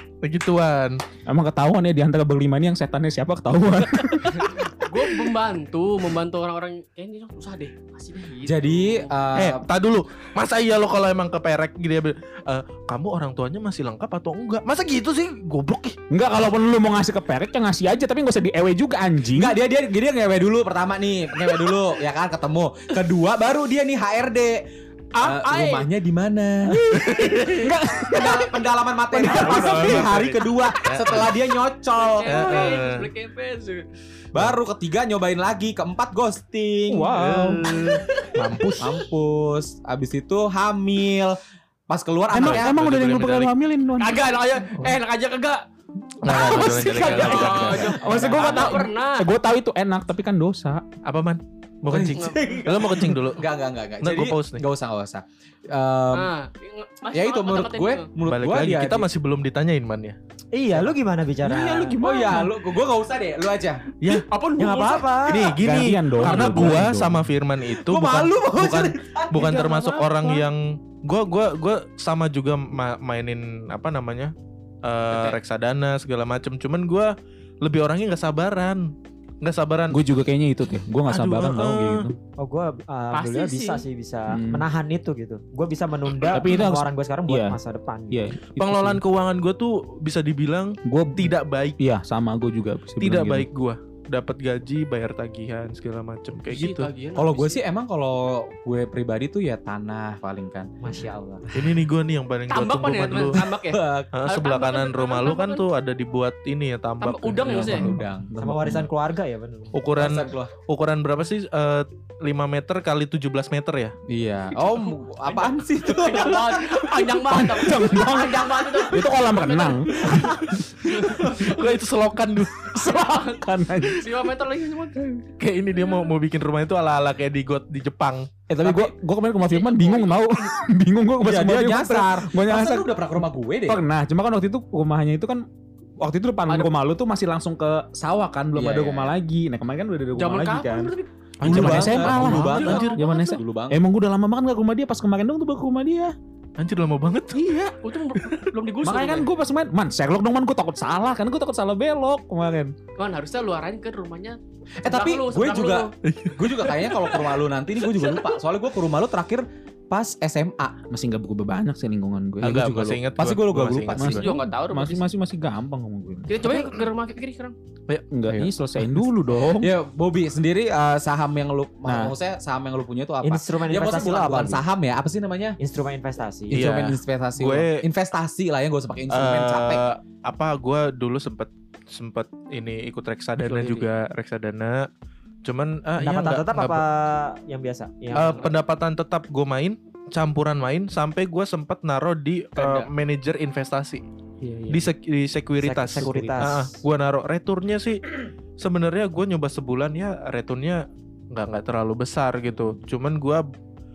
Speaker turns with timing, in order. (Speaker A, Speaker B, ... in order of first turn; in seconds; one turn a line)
Speaker A: 0.2-1.0
Speaker B: 1.3-4.8
Speaker C: 4.3-9.2
Speaker D: 8.4-9.6
Speaker A: 9.3-16.0
Speaker B: 16.1-19.6
Speaker D: 19.4-24.6
Speaker C: 25.2-25.9
Speaker D: 25.2-26.9
Speaker B: 26.7-28.6
Speaker A: 27.0-27.7
Speaker D: 28.0-32.9
Speaker B: 29.1-30.2
Speaker A: 29.3-31.4
Speaker C: 32.0-33.9
Speaker A: 32.2-33.1
Speaker D: 34.3-37.1
Speaker B: 36.9-38.0
Speaker A: 37.1-39.0
Speaker D: 38.8-41.4
Speaker D: 41.9-42.8
Speaker B: 42.3-45.0
Speaker A: 42.4-43.5
Speaker C: 44.0-45.6
Speaker A: 46.2-48.0
Speaker C: 46.3-49.3
Speaker B: 46.3-50.8
Speaker D: 47.0-48.8
Speaker A: 51.0-53.5
Speaker D: 51.9-56.3
Speaker C: 52.2-52.5
Speaker A: 54.0-54.6
Speaker C: 56.1-58.1
Speaker D: 57.1-59.1
Speaker A: 58.2-60.2
Speaker E: 60.5-62.0
Speaker B: 61.5-62.5
Speaker D: 61.5-63.9
Speaker A: 64.0-64.3
Speaker C: 64.3-65.1
Speaker E: 64.6-65.6
Speaker A: 65.2-74.3
Speaker B: 65.6-67.2
Speaker C: 66.2-66.5
Speaker D: 66.4-66.8
Speaker D: 67.7-69.6
Speaker B: 69.3-70.4
Speaker A: 74.8-80.0
Speaker C: 75.1-75.4
Speaker B: 79.9-82.2
Speaker A: 81.1-82.1
Speaker E: 82.4-88.2
Speaker C: 83.1-83.8
Speaker B: 84.3-84.7
Speaker B: 86.3-87.6
Speaker B: 88.1-89.0
Speaker A: 88.6-91.8
Speaker B: 90.8-93.5
Speaker A: 93.0-96.9
Speaker C: 96.5-97.6
Speaker D: 97.1-100.7
Speaker E: 100.8-101.7
Speaker A: 101.5-103.5
Speaker C: 102.5-105.7
Speaker D: 103.7-104.1
Speaker A: 104.1-107.9
Speaker C: 107.0-107.9
Speaker D: 107.4-108.3
Speaker B: 107.7-108.9
Speaker E: 108.4-109.8
Speaker A: 109.7-113.9
Speaker D: 110.0-110.5
Speaker D: 114.1-116.6
Speaker C: 115.9-121.7
Speaker B: 117.2-121.5
Speaker A: 121.0-122.7
Speaker B: 122.7-124.1
Speaker C: 122.7-125.2
Speaker A: 125.4-128.3
Speaker C: 125.7-126.1
Speaker B: 128.5-135.4
Speaker D: 128.6-128.9
Speaker C: 129.4-130.5
Speaker D: 131.2-133.8
Speaker B: 136.0-140.9
Speaker D: 138.6-139.2
Speaker C: 140.2-141.1
Speaker A: 141.4-143.0
Speaker D: 141.4-143.8
Speaker B: 141.4-146.1
Speaker C: 142.4-143.4
Speaker A: 146.6-148.5
Speaker C: 147.8-149.3
Speaker B: 148.8-152.8
Speaker C: 153.0-155.9
Speaker D: 154.8-160.8
Speaker A: 156.1-156.7
Speaker C: 156.9-158.4
Speaker B: 160.9-163.0
Speaker A: 162.4-164.3
Speaker D: 163.2-164.2
Speaker B: 164.0-166.3
Speaker C: 164.2-165.1
Speaker C: 166.3-167.6
Speaker A: 167.9-168.5
Speaker B: 168.1-169.7
Speaker D: 169.4-175.6
Speaker B: 171.8-172.1
Speaker E: 173.2-174.7
Speaker E: 175.6-176.7
Speaker D: 176.5-179.8
Speaker A: 176.5-177.8
Speaker A: 179.1-184.9
Speaker C: 183.4-183.9
Speaker A: 185.4-186.8
Speaker E: 186.0-188.5
Speaker C: 188.1-188.5
Speaker A: 188.1-194.0
Speaker C: 192.6-192.9
Speaker B: 194.4-194.9
Speaker A: 194.7-203.4
Speaker E: 195.6-196.7
Speaker B: 196.0-196.6